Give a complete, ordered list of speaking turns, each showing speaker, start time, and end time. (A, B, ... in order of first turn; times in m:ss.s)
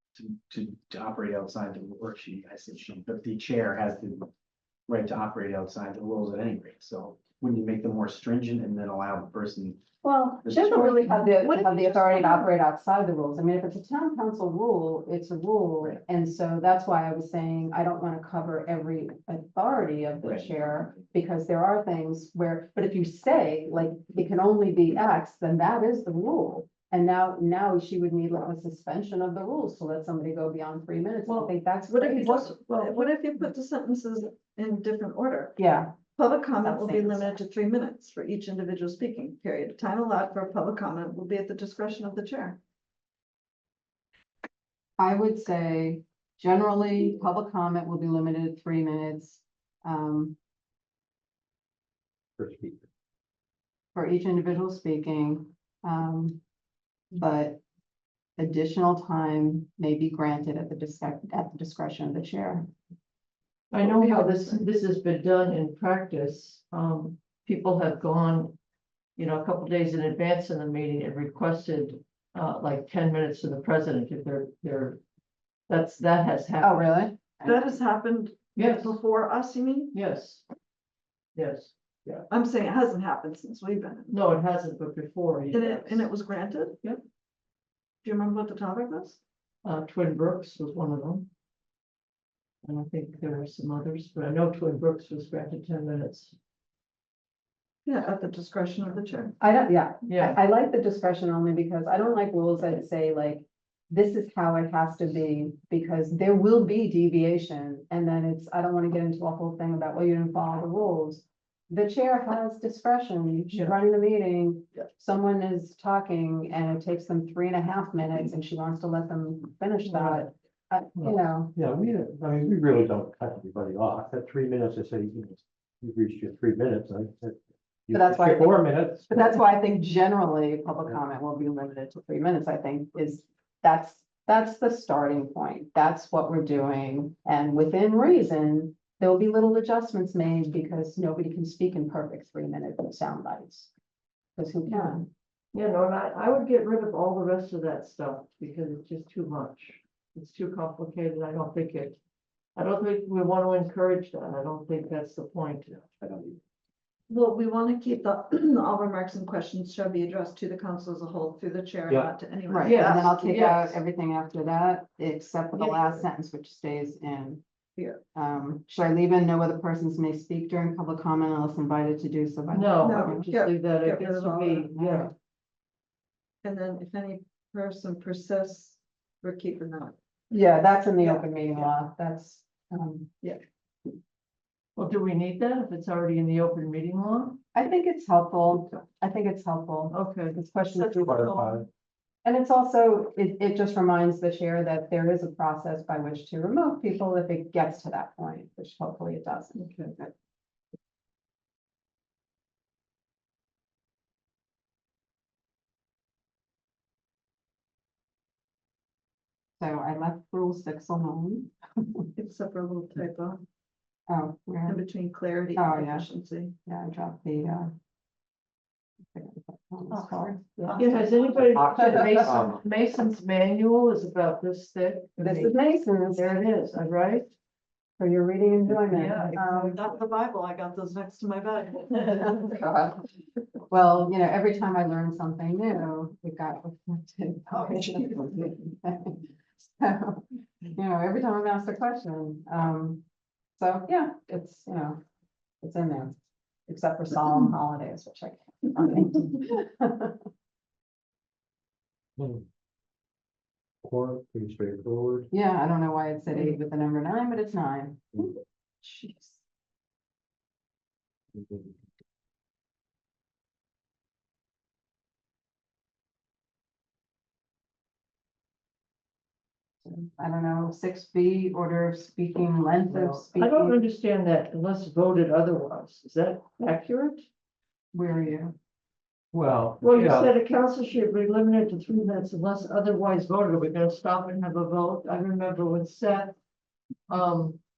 0:00.2-0:04.3 A
0:04.9-0:09.8 A
0:10.0-0:32.5 B
0:10.4-0:10.7 A
0:10.6-0:12.5 C
0:20.2-0:21.0 A
0:31.3-0:31.6 D
0:31.9-0:35.6 C
0:32.4-0:33.4 D
0:35.6-0:36.0 B
0:36.1-0:42.6 C
0:36.6-0:37.4 B
0:45.0-0:50.4 B
0:52.4-0:52.9 E
0:53.9-0:56.4 B
0:57.1-0:57.6 B
0:58.4-1:02.7 B
1:03.7-1:08.6 D
1:03.8-1:04.6 C
1:09.2-1:15.0 D
1:15.7-1:17.2 D
1:16.6-1:17.6 B
1:17.4-1:20.0 C
1:18.6-1:19.0 D
1:19.9-1:20.4 D
1:21.4-1:22.3 D
1:22.3-1:24.2 C
1:24.1-1:26.1 D
1:25.5-1:26.8 C
1:28.0-1:29.2 C
1:29.6-1:31.3 D
1:32.6-1:36.4 D
1:37.9-1:39.4 C
1:39.4-2:01.6 B
1:40.0-1:40.4 D
1:59.8-2:00.3 D
2:01.6-2:09.4 E
2:07.9-2:23.7 B
2:24.4-2:25.1 B
2:24.7-2:25.0 D
2:25.5-2:32.0 D
2:32.6-2:35.9 D
2:36.0-2:36.4 E
2:37.1-2:43.3 C
2:42.5-2:47.4 B
2:42.6-2:43.8 D
2:45.6-2:46.0 C
2:47.8-2:48.0 C
2:48.1-2:53.3 B
2:52.5-2:55.1 D
2:52.8-2:54.7 C
2:54.7-2:55.1 B
2:56.4-3:00.0 C
3:00.3-3:03.1 B
3:01.0-3:01.7 C
3:04.8-3:07.4 D
3:07.5-3:11.3 B
3:09.9-3:10.4 D
3:10.8-3:11.6 C
3:11.0-3:11.7 E
3:12.2-3:20.1 B
3:19.6-3:20.0 D
3:29.6-3:32.1 B
3:32.2-3:33.4 C
3:34.1-3:34.8 B
3:34.7-3:36.6 C
3:35.6-3:36.1 B
3:36.6-3:37.7 B
3:39.1-3:40.8 B
3:39.9-3:41.6 C
3:40.6-3:47.3 D
3:41.4-3:42.6 E
3:41.8-3:42.3 B
3:45.2-3:46.3 B
3:48.0-3:49.8 B
3:48.7-3:49.8 D
3:49.6-3:52.6 C
3:52.0-3:53.1 B
3:53.7-4:03.0 B
3:57.5-3:58.5 C
4:03.6-4:05.0 B
4:05.6-4:10.2 B
4:12.2-4:12.4 E
4:13.8-4:15.3 E
4:15.3-4:19.4 B
4:21.4-4:21.8 E
4:29.8-4:33.8 B
4:32.9-4:33.2 E
4:33.4-4:37.3 D
4:37.9-4:38.6 B
4:39.3-4:40.3 E
4:39.8-4:46.4 D
4:47.1-4:47.6 D